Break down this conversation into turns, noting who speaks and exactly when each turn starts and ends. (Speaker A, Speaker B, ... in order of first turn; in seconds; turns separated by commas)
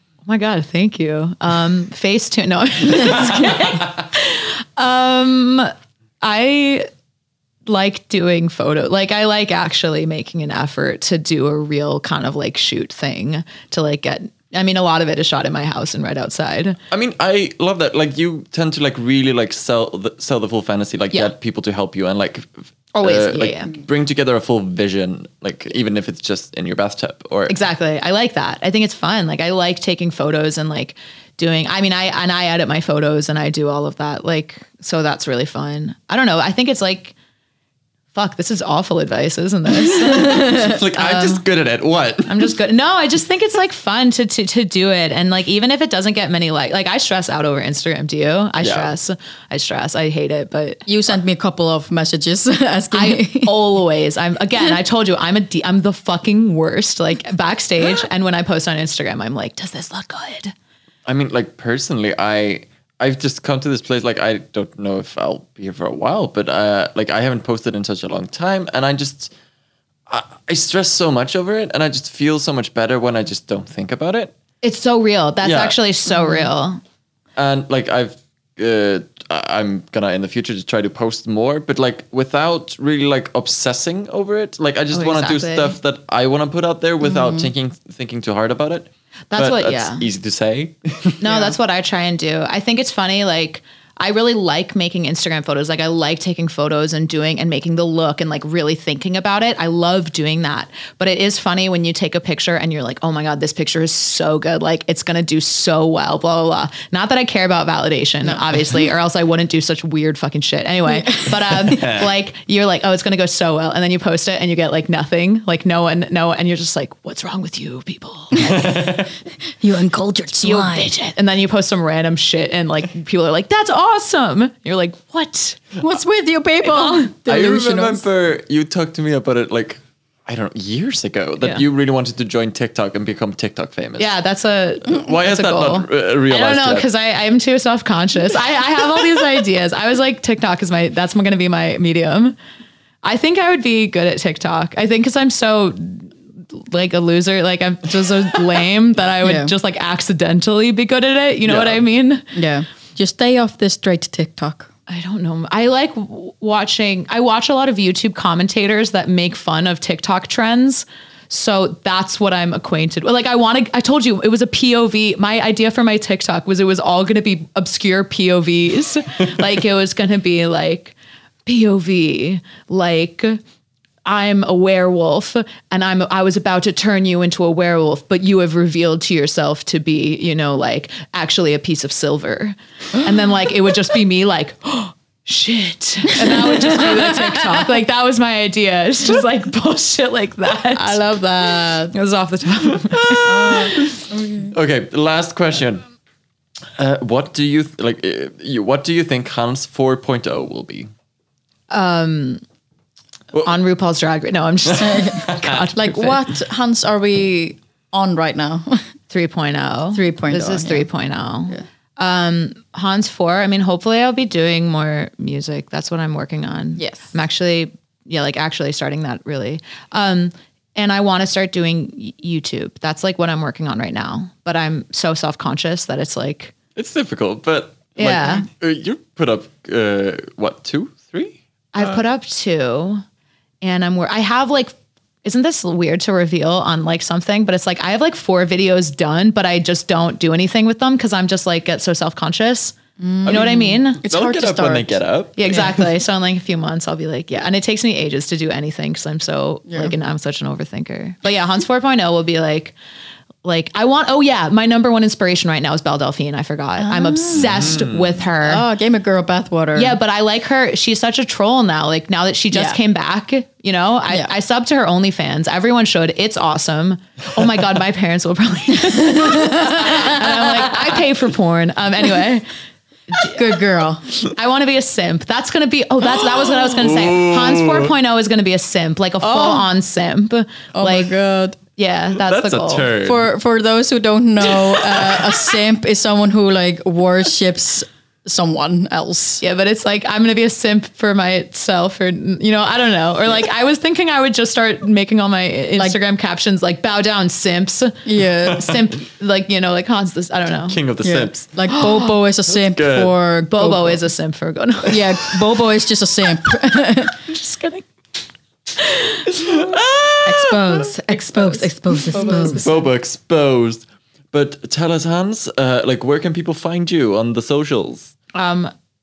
Speaker A: 0.3-6.9, Speaker B: 3.3-3.8, Speaker A: 7.7-16.8, Speaker B: 16.9-27.6, Speaker A: 22.9-23.7, Speaker A: 27.5-37.1, Speaker A: 38.1-41.4, Speaker C: 39.9-40.5, Speaker B: 40.1-42.6, Speaker A: 42.2-50.9, Speaker B: 48.6-48.9, Speaker C: 50.9-53.5, Speaker A: 52.9-60.5, Speaker B: 61.1-69.3, Speaker B: 70.1-74.3, Speaker A: 74.6-76.8, Speaker B: 75.4-75.8, Speaker B: 77.4-91.5, Speaker A: 84.9-85.8, Speaker C: 87.0-87.5, Speaker A: 89.3-90.1, Speaker A: 91.2-118.9, Speaker C: 110.9-111.3, Speaker B: 111.6-112.1, Speaker C: 118.4-119.0, Speaker B: 118.4-119.1, Speaker C: 119.6-120.9, Speaker A: 120.4-125.8, Speaker C: 125.8-128.0, Speaker A: 126.6-127.1, Speaker B: 127.3-134.1, Speaker A: 134.0-142.4, Speaker B: 134.8-136.9, Speaker A: 143.0-152.3, Speaker C: 149.2-149.5, Speaker B: 151.4-151.8, Speaker C: 152.3-154.7, Speaker A: 154.9-170.9, Speaker A: 171.5-173.4, Speaker A: 174.1-191.0, Speaker C: 186.2-187.6, Speaker C: 190.7-191.9, Speaker A: 191.8-193.9, Speaker B: 192.9-193.9, Speaker C: 193.2-194.5, Speaker B: 194.5-195.8, Speaker B: 196.8-200.9, Speaker A: 201.7-202.4, Speaker A: 203.4-206.2, Speaker B: 204.7-205.7, Speaker C: 204.8-208.8, Speaker A: 209.1-226.5, Speaker C: 209.9-210.9, Speaker C: 216.8-217.1, Speaker B: 226.8-232.0, Speaker A: 228.0-228.5, Speaker A: 231.7-233.0, Speaker A: 233.6-244.0, Speaker C: 243.0-245.0, Speaker B: 243.3-245.9, Speaker A: 245.4-252.8, Speaker A: 253.4-258.6, Speaker C: 256.8-257.8, Speaker B: 257.3-258.3, Speaker C: 258.4-260.0, Speaker A: 259.8-272.5, Speaker C: 262.5-262.8, Speaker C: 268.8-271.0, Speaker A: 273.1-273.5, Speaker C: 273.2-274.0, Speaker A: 274.2-281.1, Speaker B: 276.2-277.9, Speaker C: 279.2-279.7, Speaker C: 280.7-281.6, Speaker A: 281.8-282.9, Speaker B: 282.2-283.3, Speaker C: 283.0-289.4, Speaker B: 284.8-285.3, Speaker A: 289.4-300.8, Speaker C: 298.1-298.7, Speaker B: 300.7-301.5, Speaker C: 301.0-304.0, Speaker A: 301.7-302.1, Speaker B: 302.5-303.1, Speaker A: 303.5-305.5, Speaker C: 304.9-307.2, Speaker A: 307.1-307.9, Speaker A: 308.8-309.3, Speaker B: 309.3-311.2, Speaker C: 310.2-312.7, Speaker A: 311.3-312.8, Speaker B: 312.5-318.1, Speaker A: 318.3-318.7